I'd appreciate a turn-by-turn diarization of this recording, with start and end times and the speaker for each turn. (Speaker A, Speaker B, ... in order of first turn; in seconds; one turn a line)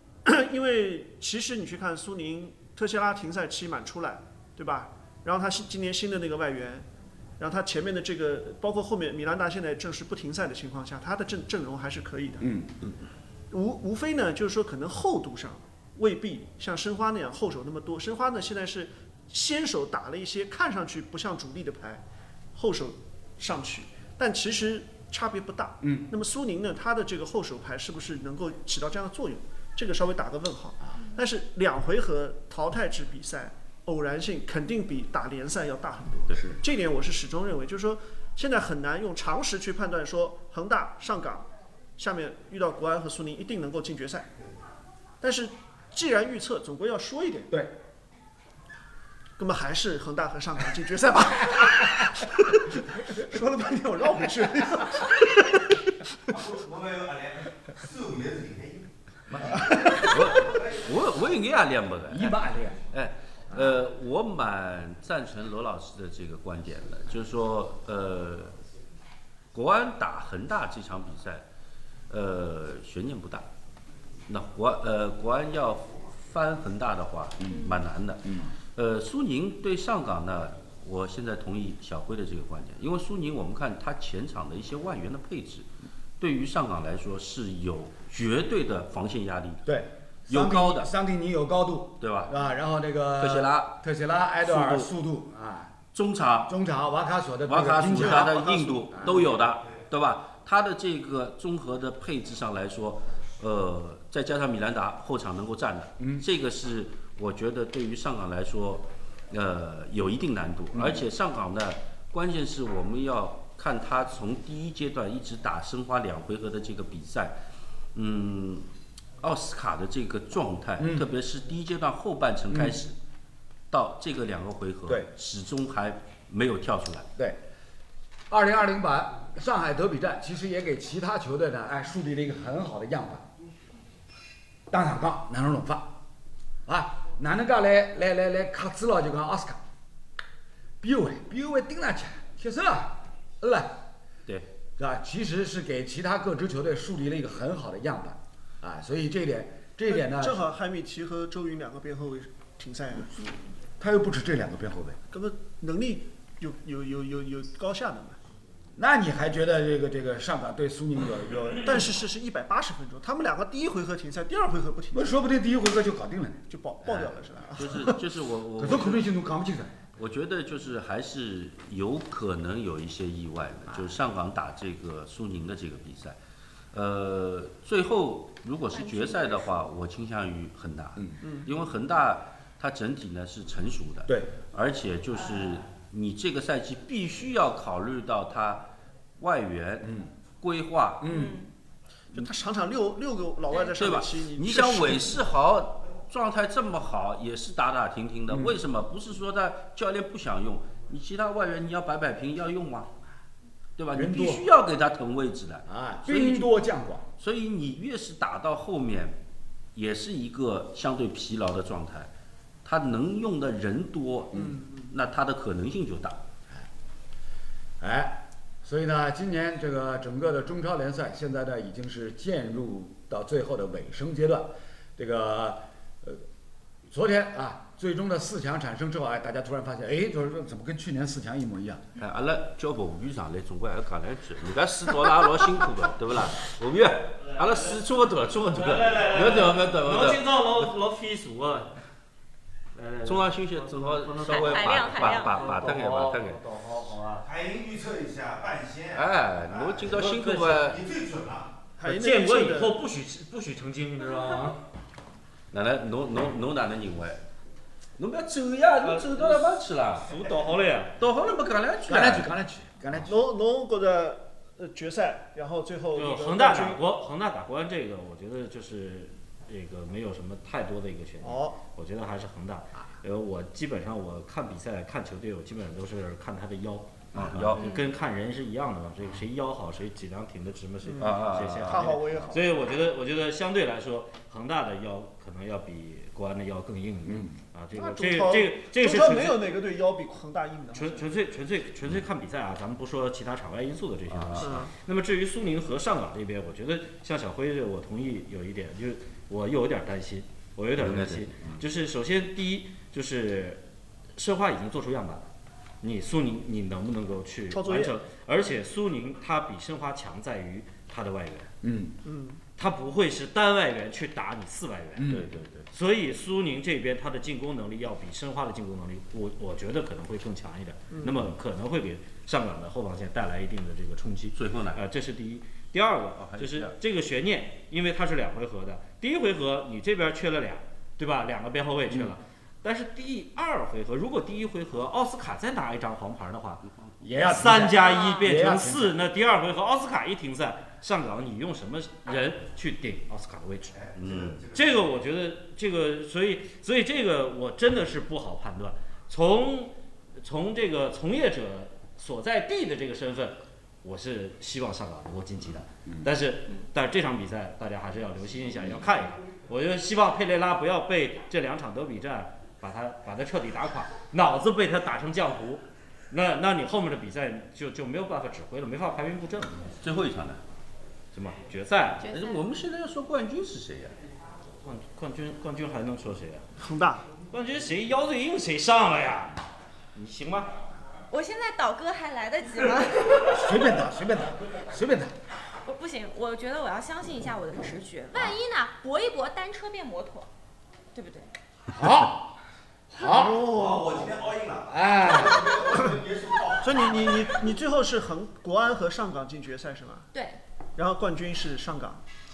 Speaker A: 0.2-6.9
Speaker A: 7.4-12.4
Speaker B: 12.4-12.8
Speaker A: 13.5-44.3
Speaker B: 25.8-26.1
Speaker A: 45.2-47.5
Speaker A: 49.4-52.0
Speaker A: 53.2-55.1
Speaker C: 56.7-57.2
Speaker C: 58.2-58.7
Speaker B: 59.4-60.0
Speaker D: 59.4-62.4
Speaker B: 62.1-62.8
Speaker D: 62.9-68.5
Speaker B: 63.5-63.7
Speaker D: 69.5-71.5
Speaker D: 72.1-73.5
Speaker D: 74.3-85.7
Speaker B: 77.4-77.7
Speaker B: 78.2-78.5
Speaker D: 86.2-89.6
Speaker B: 89.6-95.8
Speaker D: 90.3-90.9
Speaker D: 92.0-92.3
Speaker D: 93.2-93.8
Speaker D: 94.4-94.9
Speaker D: 95.9-96.5
Speaker B: 96.5-99.3
Speaker D: 97.5-117.4
Speaker A: 98.1-98.6
Speaker B: 110.7-111.0
Speaker D: 117.9-118.7
Speaker D: 119.2-123.0
Speaker B: 120.8-121.0
Speaker D: 123.7-127.1
Speaker B: 128.3-133.2
Speaker B: 134.7-135.9
Speaker B: 136.7-139.6
Speaker B: 140.8-143.8
Speaker B: 144.8-150.4
Speaker A: 149.9-153.1
Speaker B: 153.8-155.0
Speaker A: 155.1-158.2
Speaker B: 158.8-161.8
Speaker A: 161.6-165.1
Speaker B: 164.9-166.4
Speaker A: 166.5-168.0
Speaker D: 166.8-169.1
Speaker B: 168.6-169.7
Speaker D: 169.9-176.2
Speaker D: 176.7-189.9
Speaker E: 178.7-179.6
Speaker B: 184.1-184.3
Speaker B: 189.8-190.1
Speaker D: 190.4-191.1
Speaker B: 191.0-191.4
Speaker E: 191.1-191.5
Speaker A: 192.1-195.0
Speaker E: 193.5-193.8
Speaker D: 193.7-202.9
Speaker B: 198.3-198.6
Speaker D: 203.8-206.5
Speaker B: 203.9-204.4
Speaker B: 205.7-207.1
Speaker D: 207.2-209.2
Speaker D: 209.7-212.1
Speaker D: 212.6-216.2
Speaker B: 217.8-226.2
Speaker B: 226.9-231.8
Speaker D: 232.0-240.2
Speaker F: 237.3-237.6
Speaker F: 238.4-241.7
Speaker F: 242.7-247.3
Speaker D: 243.0-246.4
Speaker E: 244.2-245.5
Speaker C: 247.4-248.8
Speaker D: 248.9-250.9
Speaker F: 249.9-250.8
Speaker C: 251.1-251.4
Speaker A: 251.8-252.7
Speaker F: 251.8-254.6
Speaker D: 255.5-257.2
Speaker D: 258.0-260.1
Speaker F: 258.8-261.0
Speaker D: 261.0-262.4
Speaker B: 261.9-263.1
Speaker A: 263.0-266.8
Speaker F: 265.9-289.4
Speaker A: 271.2-271.6
Speaker D: 277.1-277.6
Speaker E: 277.6-277.9
Speaker A: 280.8-282.6
Speaker D: 281.0-281.9
Speaker B: 287.1-287.4
Speaker A: 287.8-291.0
Speaker F: 290.7-303.6
Speaker D: 294.1-294.6
Speaker D: 300.8-301.6
Speaker F: 304.1-305.3
Speaker F: 305.8-311.5
Speaker A: 307.5-307.9
Speaker B: 311.6-311.9
Speaker A: 312.0-312.4
Speaker F: 312.6-315.1
Speaker B: 315.0-315.2
Speaker D: 315.1-315.7
Speaker F: 315.7-336.6
Speaker D: 324.3-324.8
Speaker D: 326.2-326.7
Speaker B: 337.0-338.9
Speaker F: 337.2-343.8
Speaker E: 337.8-338.3
Speaker D: 343.9-344.5
Speaker F: 344.5-369.8
Speaker D: 369.8-370.4
Speaker F: 371.1-372.1
Speaker E: 372.0-372.4
Speaker D: 372.1-374.0
Speaker F: 374.6-376.4
Speaker A: 376.6-377.0
Speaker F: 377.3-379.4
Speaker F: 379.9-380.5
Speaker E: 381.1-383.4
Speaker B: 383.2-385.1
Speaker E: 385.5-390.3
Speaker E: 390.9-391.3
Speaker B: 391.7-392.4
Speaker B: 392.9-393.4
Speaker A: 393.0-394.0
Speaker C: 394.2-394.5
Speaker B: 394.6-395.6
Speaker A: 396.6-400.1
Speaker E: 400.1-400.4
Speaker A: 400.8-402.0